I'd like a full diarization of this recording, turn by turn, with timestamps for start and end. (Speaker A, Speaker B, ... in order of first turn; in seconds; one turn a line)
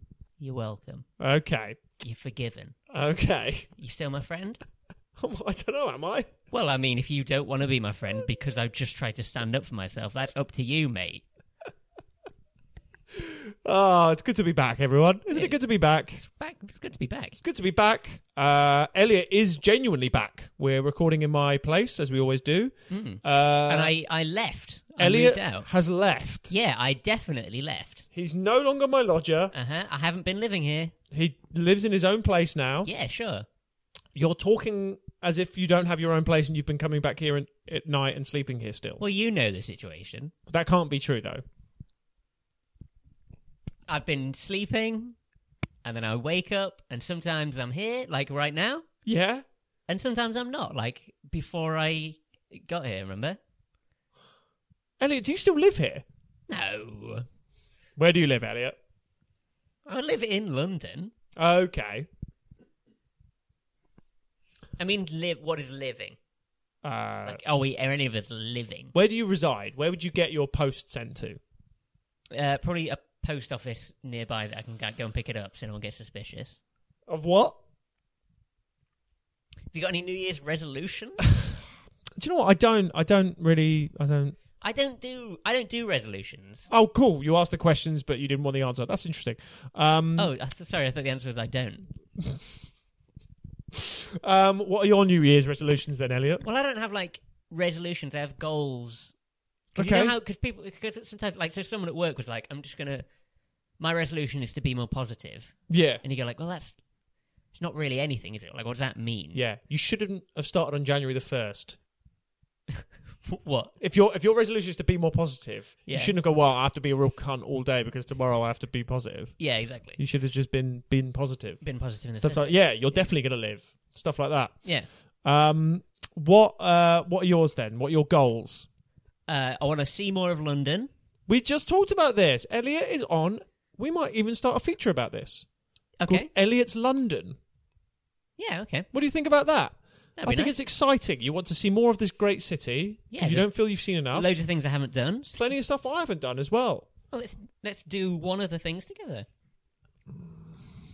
Speaker A: 0.4-1.1
Speaker B: 1.2-1.8
Speaker A: 2.0-2.8
Speaker B: 2.9-3.7
Speaker A: 3.8-4.6
Speaker B: 5.2-6.3
Speaker A: 6.5-11.2
Speaker B: 13.1-16.2
Speaker A: 15.3-15.6
Speaker A: 16.2-17.4
Speaker B: 17.4-23.9
Speaker A: 22.9-25.7
Speaker B: 25.0-26.5
Speaker A: 26.5-28.1
Speaker B: 28.1-29.5
Speaker A: 29.5-30.9
Speaker B: 31.1-32.9
Speaker A: 32.8-33.5
Speaker B: 34.1-39.0
Speaker A: 39.0-40.3
Speaker B: 40.5-41.4
Speaker A: 43.9-45.2
Speaker A: 45.8-48.9
Speaker B: 49.0-49.4
Speaker A: 49.9-53.4
Speaker B: 55.0-56.0
Speaker A: 56.5-57.2
Speaker B: 58.0-58.8
Speaker A: 59.9-61.1
Speaker B: 61.4-62.1
Speaker A: 64.8-66.2
Speaker B: 66.8-67.4
Speaker A: 67.2-68.9
Speaker B: 68.9-71.4
Speaker A: 72.3-76.6
Speaker B: 77.1-77.5
Speaker A: 79.7-81.2
Speaker B: 82.2-84.3
Speaker A: 84.6-86.7
Speaker B: 86.7-90.3
Speaker A: 90.2-91.9
Speaker B: 93.7-96.4
Speaker A: 96.4-99.1
Speaker A: 99.7-103.0
Speaker B: 99.8-100.1
Speaker A: 103.8-106.8
Speaker B: 105.7-106.0
Speaker A: 107.5-109.4
Speaker B: 109.3-111.8
Speaker A: 112.8-113.7
Speaker B: 113.8-119.4
Speaker A: 115.8-116.1
Speaker A: 119.4-120.0
Speaker B: 120.0-121.6
Speaker A: 121.6-123.0
Speaker B: 122.2-124.6
Speaker B: 125.2-128.7
Speaker A: 129.3-130.9
Speaker B: 131.3-135.4
Speaker A: 136.0-136.3
Speaker B: 136.1-137.4
Speaker A: 138.4-138.9
Speaker B: 138.9-144.3
Speaker A: 140.2-140.5
Speaker A: 143.1-143.5
Speaker A: 144.1-145.4
Speaker B: 145.3-146.9
Speaker A: 147.1-149.2
Speaker B: 150.1-150.4